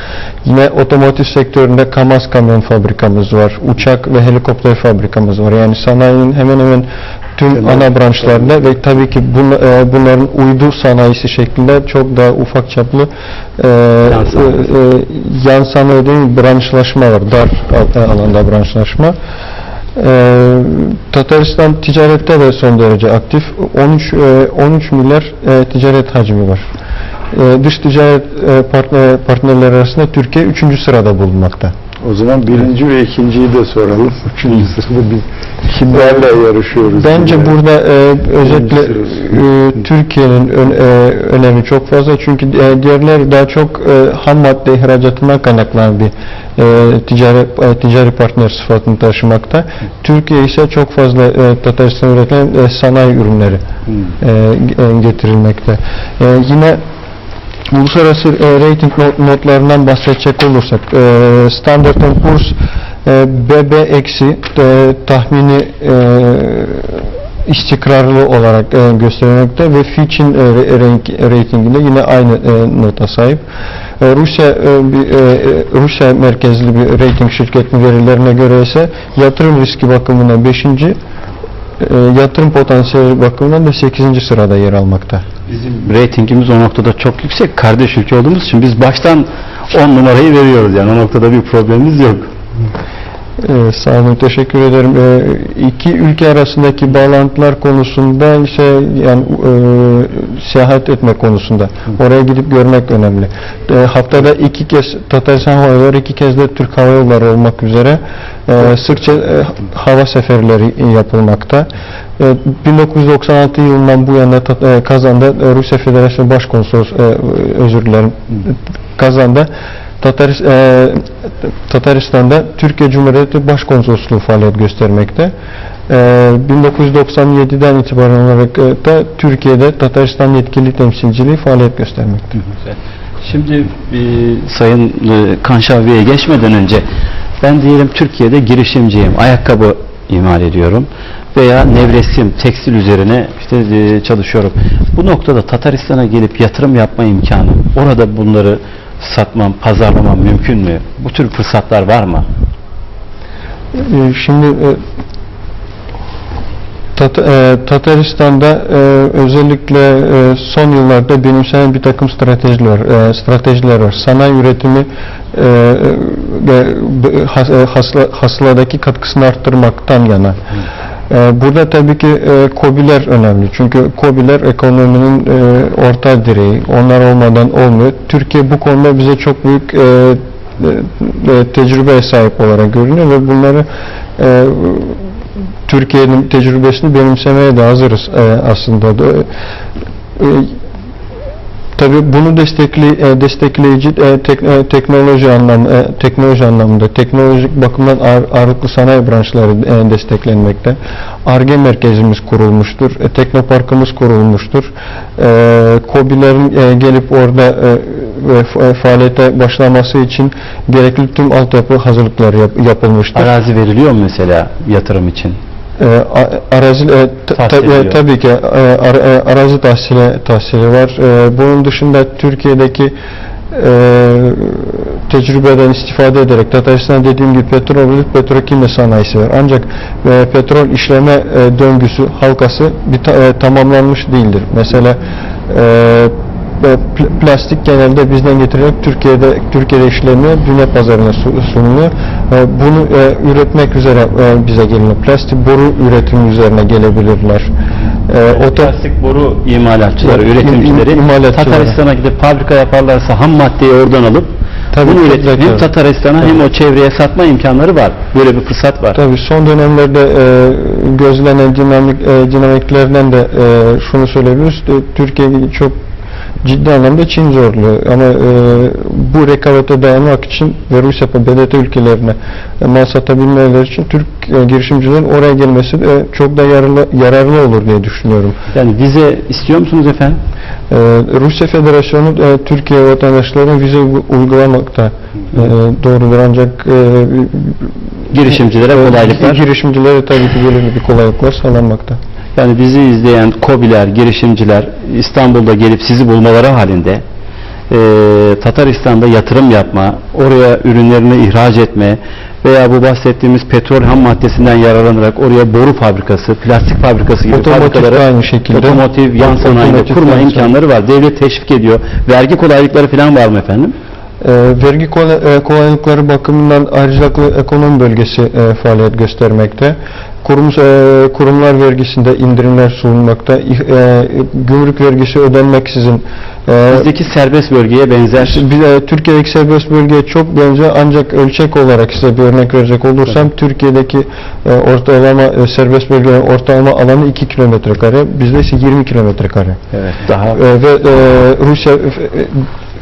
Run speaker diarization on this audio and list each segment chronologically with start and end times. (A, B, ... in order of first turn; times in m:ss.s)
0:00.4-0:19.2 A
0:14.1-0:14.7 B
0:19.9-0:26.6 A
0:27.3-0:31.7 A
0:32.0-0:37.6 C
0:35.9-0:53.6 A
0:38.4-0:39.2 C
0:54.2-0:56.8 A
0:57.7-1:13.4 A
1:14.0-1:21.0 A
1:21.8-1:25.2 A
1:25.5-1:32.3 B
1:33.4-2:05.3 A
2:05.9-2:12.4 A
2:12.7-2:16.8 B
2:17.4-2:32.2 B
2:33.7-2:34.8 A
2:37.0-2:50.4 A
2:51.1-3:03.6 A
3:04.2-3:05.1 A
3:05.6-3:09.3 A
3:10.2-3:10.6 A
3:11.8-3:33.3 A
3:33.1-3:35.4 B
3:35.8-3:42.9 A
3:37.4-3:38.0 B
3:43.5-4:07.5 A
4:08.1-4:08.7 A
4:08.3-4:19.0 B
4:10.0-4:11.8 A
4:14.7-4:15.7 A
4:18.9-4:25.8 A
4:26.4-4:38.4 A
4:38.5-4:40.2 B
4:40.7-4:52.0 A
4:48.1-4:49.4 B
4:52.4-4:57.0 B
4:57.7-5:13.8 B
5:07.3-5:10.5 A
5:14.2-5:26.9 A
5:26.7-5:28.4 B
5:28.2-5:39.6 A
5:39.8-5:40.4 B
5:40.3-5:42.5 A